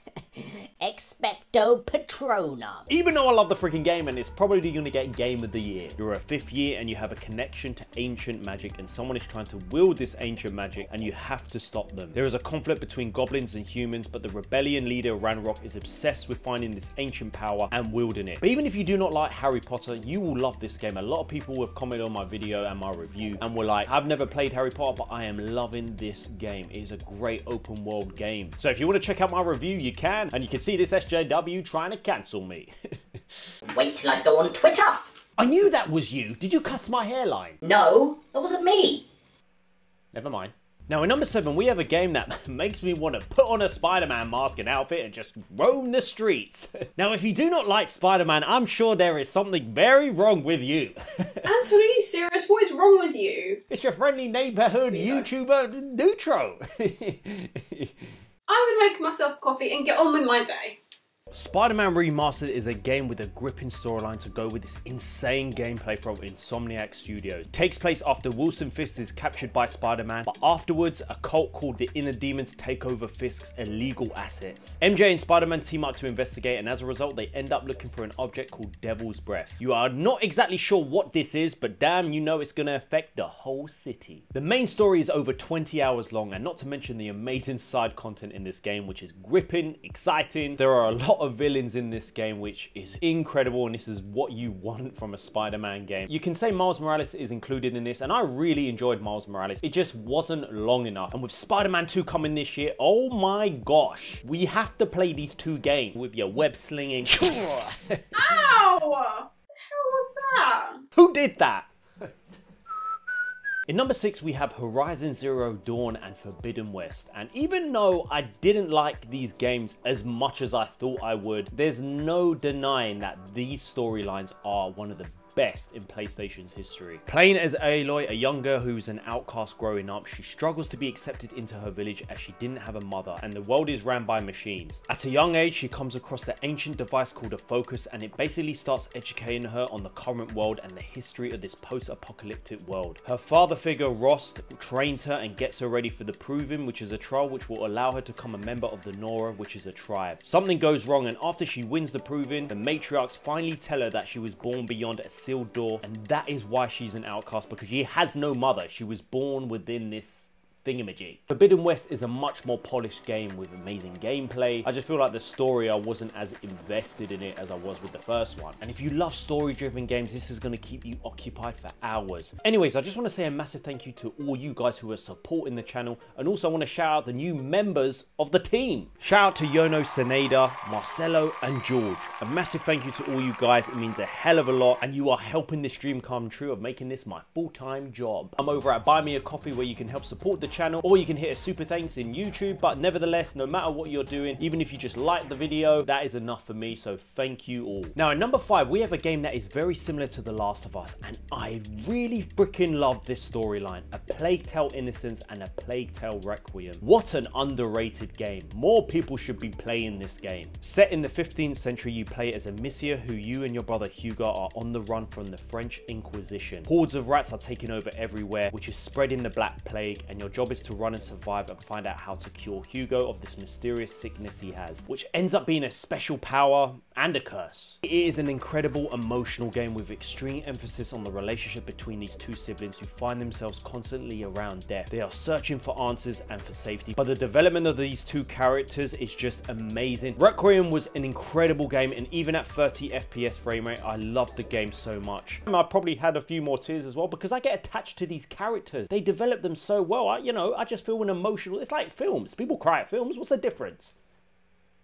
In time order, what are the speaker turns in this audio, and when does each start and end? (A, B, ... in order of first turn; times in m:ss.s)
0:00.4-0:02.9 A
0:02.9-0:32.7 B
0:33.7-0:35.0 A
0:35.4-0:37.6 B
0:37.6-0:39.0 A
0:40.1-0:51.5 B
0:51.4-0:53.6 C
0:53.7-0:57.9 B
0:54.9-0:55.2 C
0:58.5-1:00.8 C
1:01.3-1:48.5 B
1:48.1-1:50.8 C
1:51.0-1:52.1 B
1:53.7-4:13.9 B